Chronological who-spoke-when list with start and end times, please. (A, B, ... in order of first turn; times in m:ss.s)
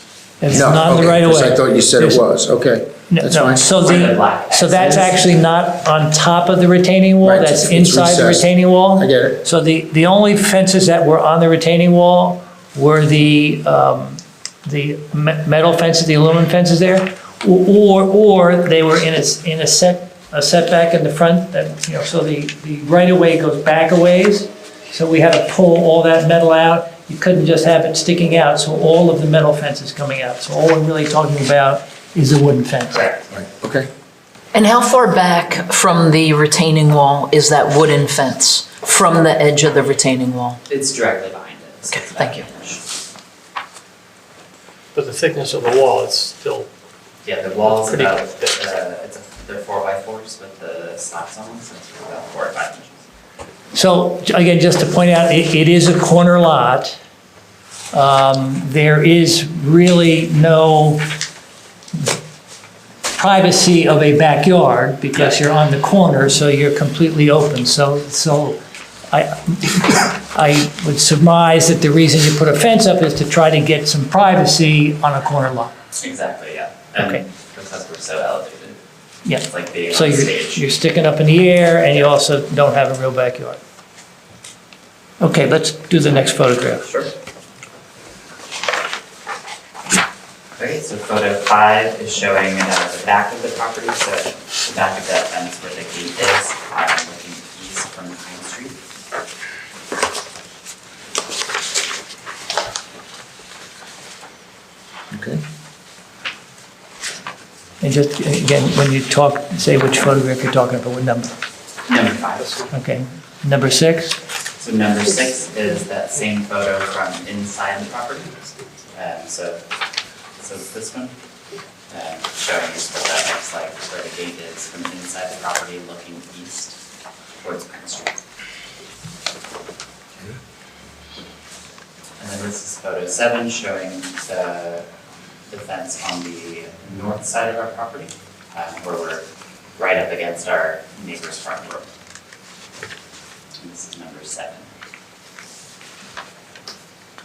0:00.4-0:02.2 A
0:00.5-0:03.7 B
0:03.1-0:33.1 A
0:03.8-0:05.3 C
0:04.7-0:05.2 B
0:07.2-0:09.4 B
0:32.9-0:33.5 C
0:33.3-0:33.9 B
0:34.5-0:40.6 D
0:40.7-0:42.9 C
0:42.1-0:42.4 D
0:44.9-0:46.7 E
0:47.2-0:53.0 C
0:47.6-0:48.6 E
0:53.7-0:57.0 A
0:57.9-1:01.0 A
1:03.2-1:08.6 A
1:05.1-1:05.4 C
1:09.1-1:15.7 A
1:15.9-1:18.8 C
1:17.0-1:17.2 A
1:19.2-1:23.6 A
1:19.4-1:20.7 C
1:25.2-1:26.9 A
1:26.0-1:27.1 C
1:30.6-1:38.8 C
1:45.1-1:45.4 B
1:47.8-1:51.3 A
1:51.9-1:52.7 C
1:52.7-1:54.2 A
1:54.6-1:58.3 C
1:58.9-1:59.6 C
2:00.4-2:01.1 C
2:01.9-2:06.8 C
2:07.4-2:08.2 C
2:12.2-2:14.9 C
2:15.5-2:21.8 C
2:23.6-2:24.7 C